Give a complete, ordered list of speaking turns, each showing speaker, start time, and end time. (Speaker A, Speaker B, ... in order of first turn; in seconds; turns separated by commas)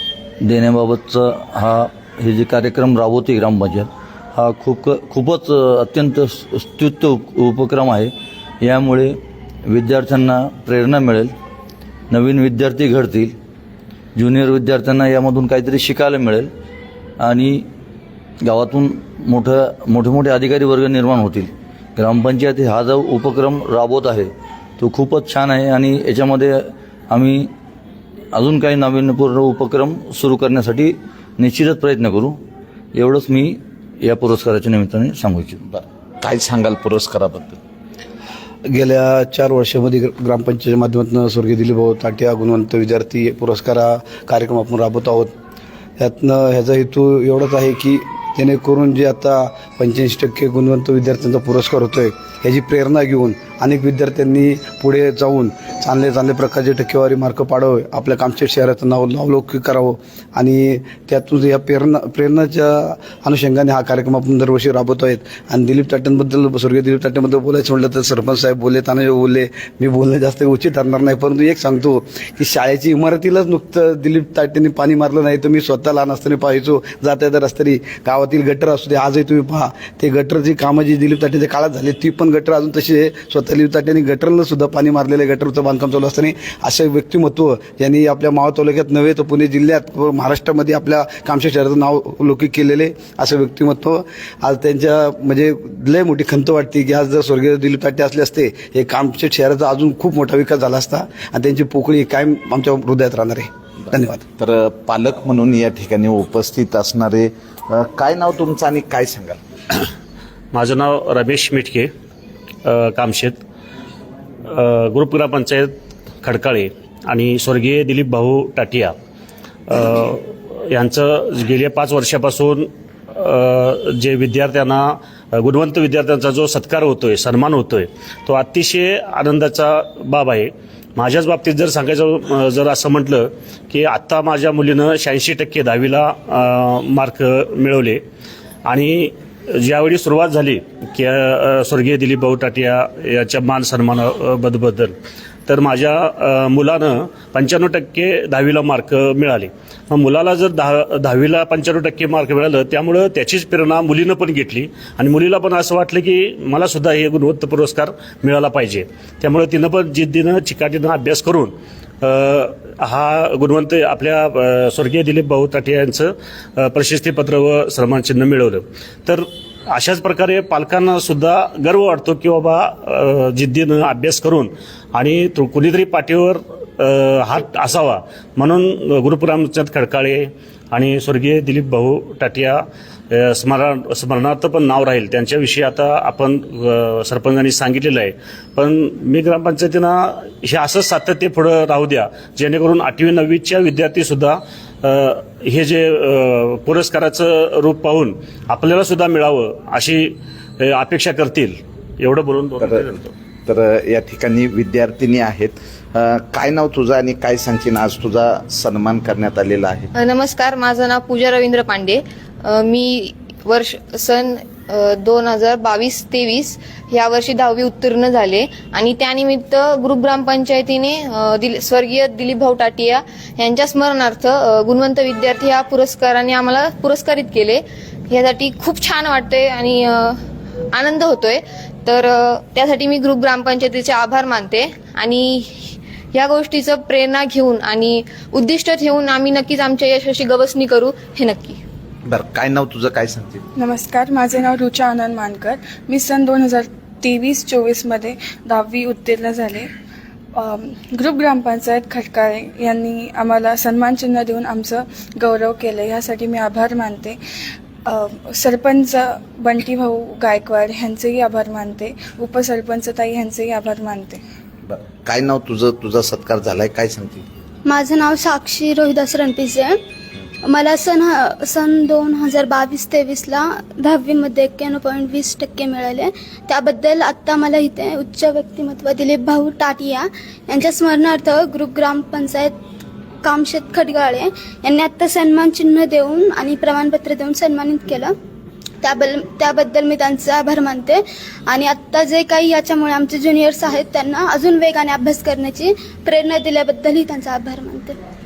Speaker A: 0.4-11.3, Speaker A: 12.1-13.3, Speaker A: 14.2-16.5, Speaker A: 17.2-17.7, Speaker A: 18.4-27.5, Speaker A: 28.3-32.4, Speaker A: 32.9-35.6, Speaker B: 35.7-37.6, Speaker C: 38.7-45.3, Speaker C: 46.0-104.2, Speaker B: 104.4-109.4, Speaker D: 110.5-111.9, Speaker D: 112.7-113.4, Speaker D: 114.5-115.7, Speaker D: 116.2-118.9, Speaker D: 119.7-138.0, Speaker D: 138.7-144.9, Speaker D: 145.5-203.1, Speaker B: 202.6-202.9, Speaker B: 203.5-209.9, Speaker E: 209.9-230.2, Speaker E: 230.7-241.6, Speaker B: 242.1-243.4, Speaker F: 243.6-249.7, Speaker F: 250.3-257.2, Speaker F: 257.9-264.2, Speaker B: 264.7-267.2, Speaker G: 267.7-269.8, Speaker G: 270.4-282.6, Speaker G: 283.2-288.1, Speaker G: 288.8-298.0